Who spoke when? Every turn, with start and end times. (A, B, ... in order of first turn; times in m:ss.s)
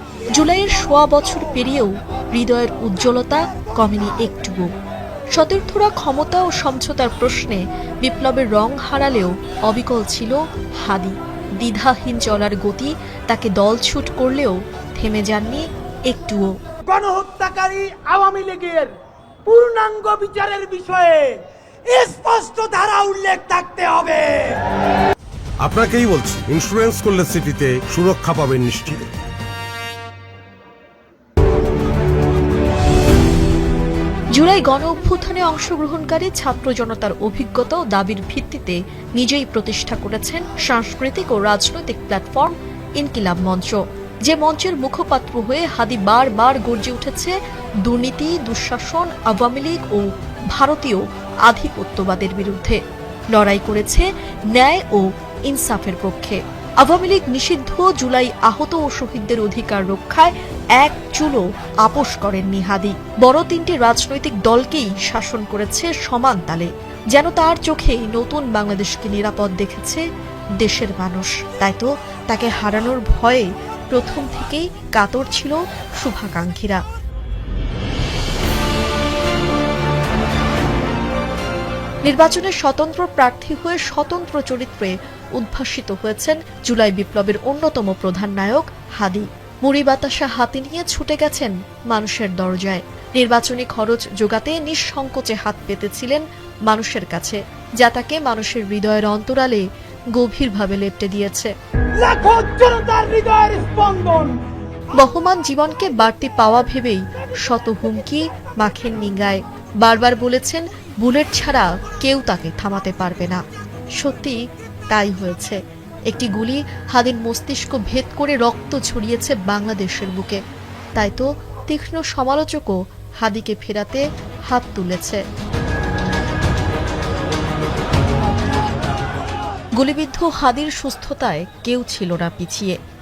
0:00.3-0:04.7 A
0:05.3-0:16.5 A
0:16.9-0:18.9 B
0:19.5-0:24.6 B
0:25.6-0:29.1 C
0:34.3-0:52.8 A
0:53.3-1:10.0 A
1:10.6-1:16.8 A
1:22.0-1:39.6 A
1:40.2-1:41.5 A
1:42.0-1:44.4 B
1:44.9-1:53.4 A
1:54.0-1:54.4 A
1:54.9-2:00.4 A
2:01.0-2:05.2 A
2:09.8-2:12.8 A